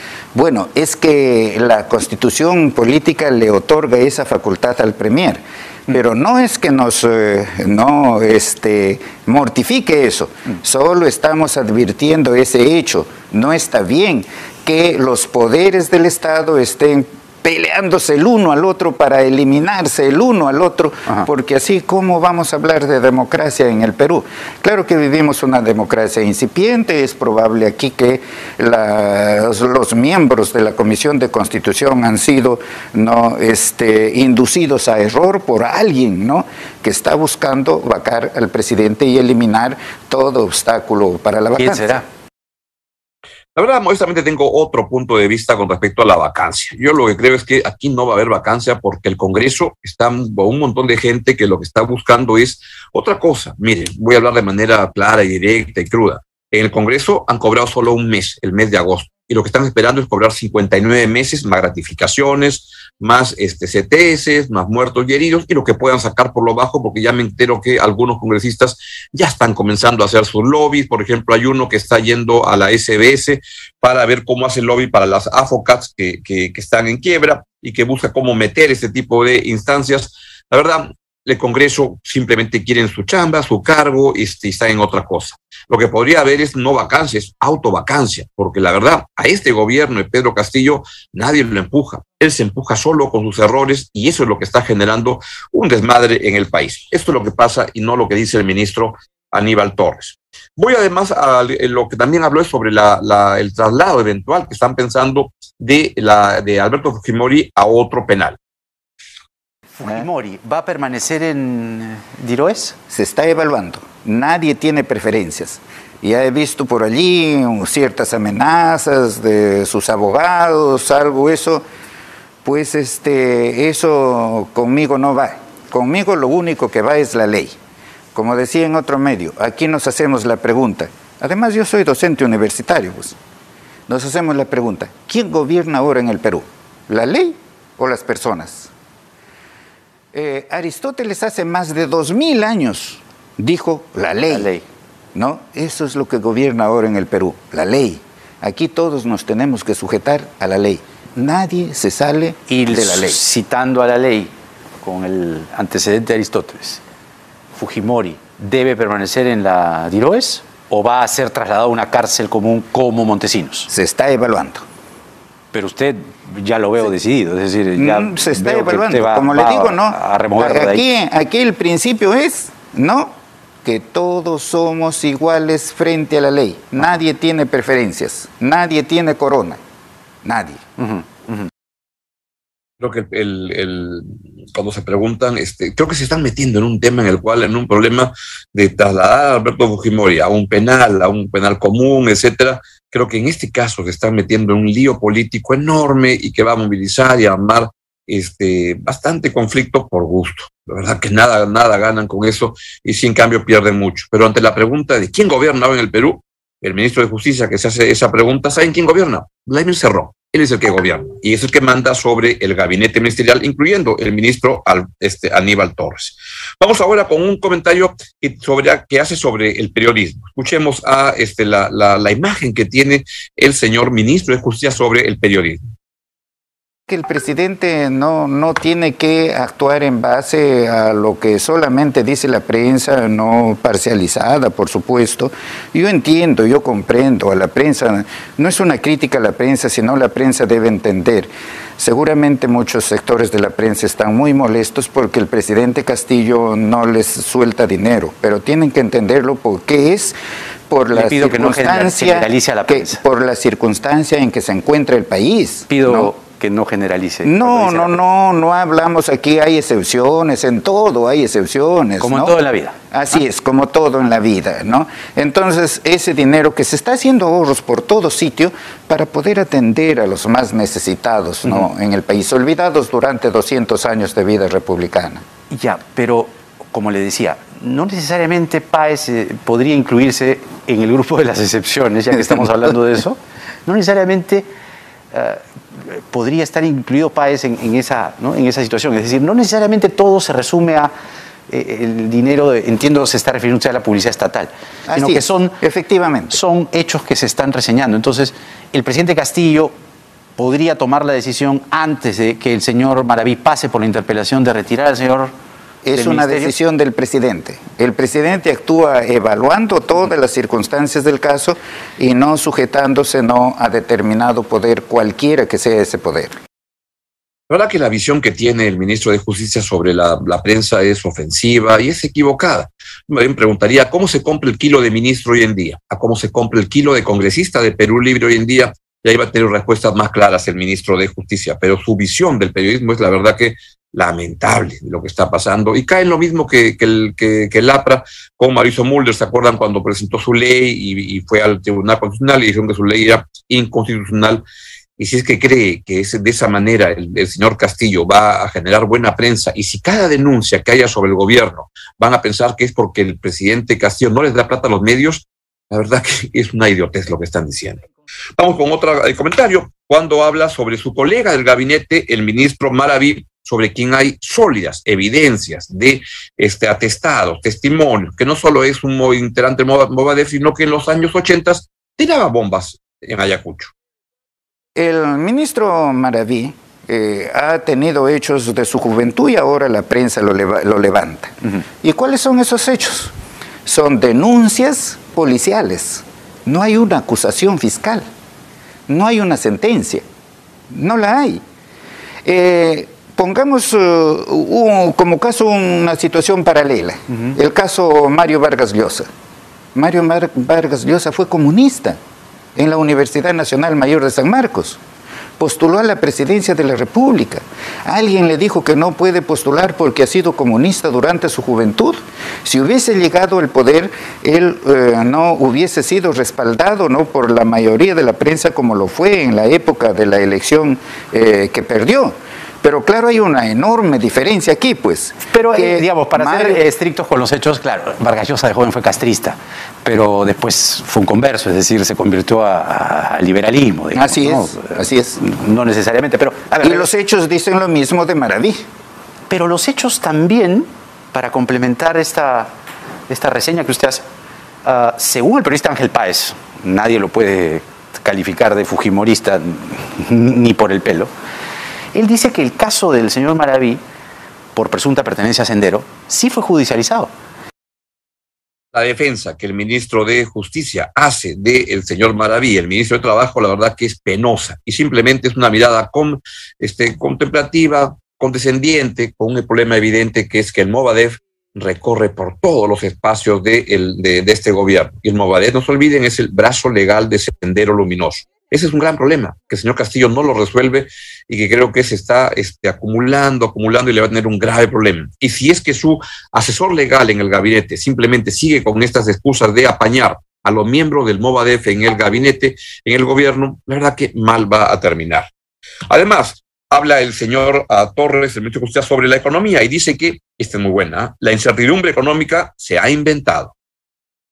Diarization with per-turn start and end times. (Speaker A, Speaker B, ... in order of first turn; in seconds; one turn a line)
Speaker A: 0.3-42.0
Speaker B: 41.5-42.0
Speaker C: 43.5-108.4
Speaker B: 109.8-112.7
Speaker A: 112.9-121.6
Speaker A: 122.4-127.5
Speaker A: 128.1-133.2
Speaker A: 133.9-138.7
Speaker A: 140.1-144.5
Speaker B: 144.3-144.6
Speaker A: 145.1-153.2
Speaker B: 152.5-156.8
Speaker B: 157.6-163.7
Speaker A: 163.7-164.6
Speaker B: 165.5-170.8
Speaker A: 167.8-179.6
Speaker A: 180.2-180.6
Speaker B: 180.8-181.4
Speaker C: 182.8-225.7
Speaker A: 226.9-250.2
Speaker A: 250.7-256.1
Speaker B: 250.9-253.0
Speaker B: 255.7-258.0
Speaker A: 257.2-262.4
Speaker B: 262.0-262.8
Speaker A: 262.9-275.2
Speaker B: 275.5-284.5
Speaker B: 285.1-290.9
Speaker B: 291.5-295.6
Speaker A: 294.9-296.4
Speaker B: 296.3-299.7
Speaker B: 300.4-305.3
Speaker A: 305.8-316.3
Speaker B: 305.9-306.5
Speaker C: 317.5-344.4
Speaker C: 345.0-357.8
Speaker C: 358.4-373.7
Speaker A: 374.7-383.1
Speaker A: 383.6-388.0
Speaker A: 388.9-390.0
Speaker A: 390.7-391.4
Speaker A: 392.2-399.1
Speaker A: 399.7-402.0
Speaker A: 402.6-404.8
Speaker A: 405.4-426.6
Speaker B: 425.3-436.9
Speaker A: 433.9-435.2
Speaker A: 436.6-438.6
Speaker B: 439.3-442.5
Speaker B: 443.1-444.0
Speaker B: 444.6-451.1
Speaker B: 451.9-453.8
Speaker B: 454.5-457.1
Speaker C: 458.7-495.3
Speaker C: 495.9-503.5